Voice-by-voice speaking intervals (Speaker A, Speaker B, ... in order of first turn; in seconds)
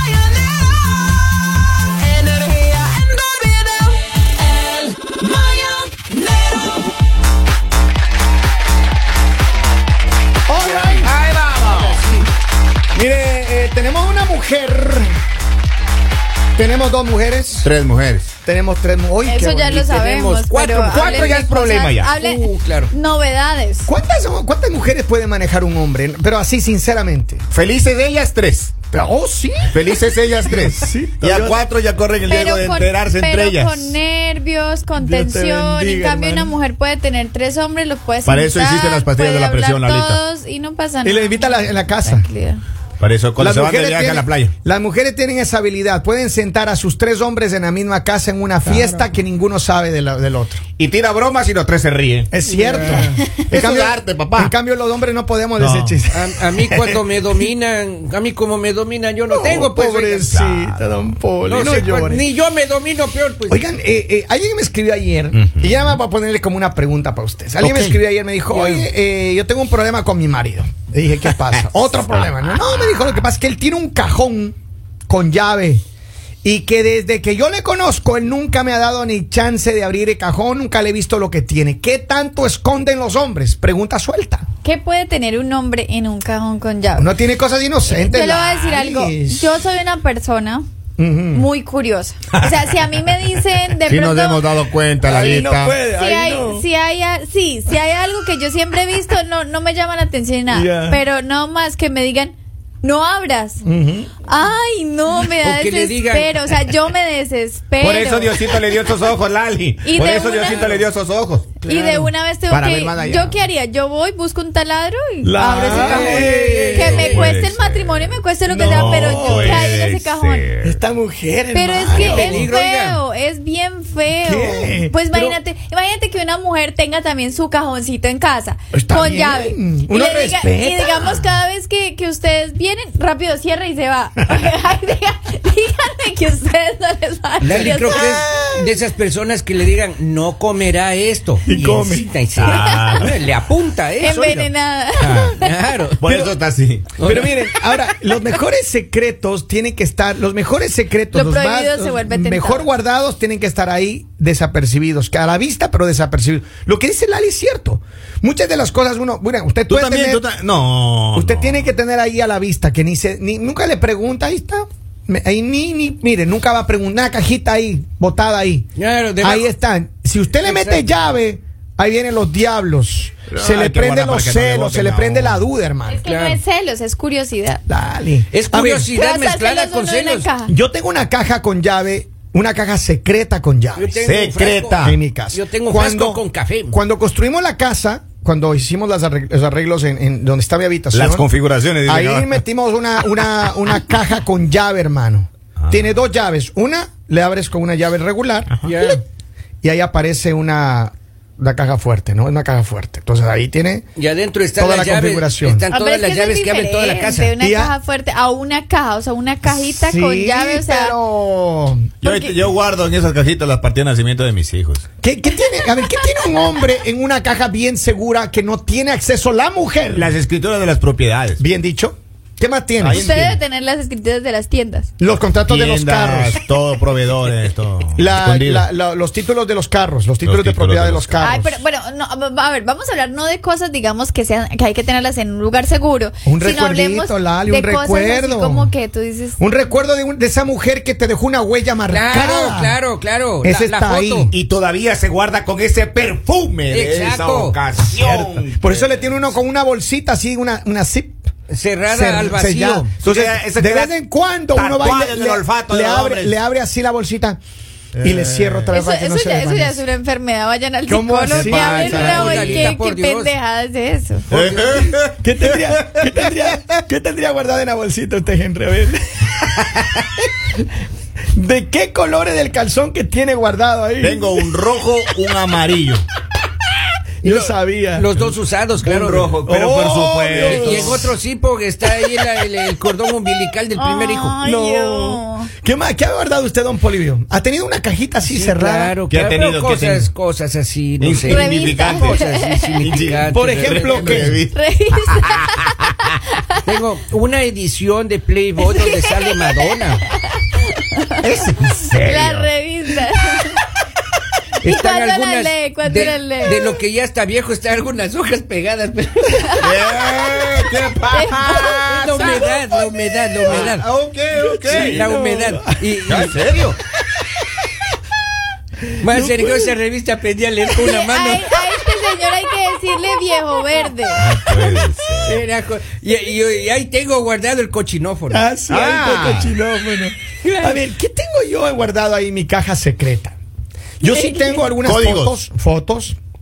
Speaker A: 2.4-3.9, 4.8-6.1, 11.0-12.2, 19.8-21.4, 22.1-22.9, 52.5-53.2, 56.1-60.3, 61.5-63.6, 68.5-68.9, 105.4-106.7, 111.6-112.1, 115.5-117.4, 121.9-123.0, 137.4-144.5, 145.4-146.0, 147.0-147.4, 168.8-169.5, 170.4-170.9, 176.1-176.4, 178.3-180.3, 183.8-186.8, 198.7-199.0, 204.0-207.3, 241.9-244.3, 246.7-247.6, 251.5-252.9, 261.7-263.3, 264.3-264.9, 277.2-279.4, 280.4-284.4, 288.3-294.4, 296.7-300.1, 304.6-309.6, 311.9-313.9, 314.7-316.4, 319.0-321.9, 325.2-328.5, 330.4-330.9
Speaker B: 10.5-11.1, 12.9-15.2, 16.6-17.7, 18.4-19.9, 23.9-27.4, 28.9-30.0, 30.5-31.6, 35.0-36.5, 41.0-42.3, 43.4-50.6, 52.3-57.0, 59.3-62.2, 63.5-74.5, 75.1-75.8, 76.4-84.4, 87.0-89.6, 91.0-91.5, 92.3-92.7, 95.0-96.7, 100.5-101.0, 103.6-104.1, 115.2-117.2, 118.5-119.7, 120.6-122.5, 124.2-125.4, 128.7-131.2, 137.5-138.7, 141.5-142.1, 146.0-146.4, 147.0-160.2, 161.2-168.7, 169.2-176.0, 177.7-178.9, 180.5-184.0, 184.8-191.3, 191.8-199.0, 199.6-203.9, 204.6-205.7, 207.4-207.7, 209.5-212.0, 215.0-220.1, 221.4-223.1, 225.0-226.3, 228.0-231.6, 236.2-238.7, 239.4-242.8, 243.4-244.3, 248.0-251.3, 251.9-257.4, 258.0-259.8, 260.9-262.2, 265.2-269.5, 271.3-274.5, 277.2-278.1, 279.4-281.1, 284.4-288.9, 293.3-294.4, 314.4-315.7, 319.0-319.7, 328.3-333.4, 334.0-336.2
Speaker C: 11.2-12.0, 17.6-18.3, 20.9-22.1, 27.5-28.8, 29.7-34.0, 38.2-40.2, 43.0-44.5, 50.8-52.3, 53.5-54.5, 55.6-56.0, 60.3-60.8, 67.6-68.0, 93.9-95.8, 107.8-111.5, 112.5-113.4, 115.7-116.1, 116.7-120.8, 142.3-143.1, 145.0-145.3, 146.0-146.9, 159.7-161.6, 173.3-175.4, 184.0-185.0, 190.9-192.4, 212.0-214.8, 219.9-221.4, 222.8-223.4, 225.4-228.7, 230.2-231.2, 244.3-249.3, 253.0-253.9, 254.5-256.4, 257.9-258.7, 261.3-262.7, 264.3-265.3, 265.8-266.2, 274.0-276.1, 278.8-281.1, 289.1-290.1, 291.0-292.2, 292.8-295.9, 301.2-302.5, 309.6-312.6, 313.5-315.1, 316.1-316.8, 324.2-325.4, 328.7-329.6, 334.8-335.4
Speaker D: 19.2-23.9, 32.2-42.6, 84.6-87.1, 87.9-90.7, 91.3-94.5, 95.9-103.6, 104.2-108.5, 109.8-110.8, 111.6-120.5, 121.5-138.2, 142.5-143.0, 144.0-145.5, 151.1-152.7, 175.9-177.6, 178.9-180.5, 205.7-211.0, 212.0-212.4, 222.9-224.9, 231.2-239.4, 258.7-264.3, 283.8-285.5, 291.3-292.9, 294.5-296.6, 298.7-299.2, 300.4-301.1, 302.0-303.6, 304.6-306.8, 311.1-311.8, 320.8-324.2, 334.0-334.7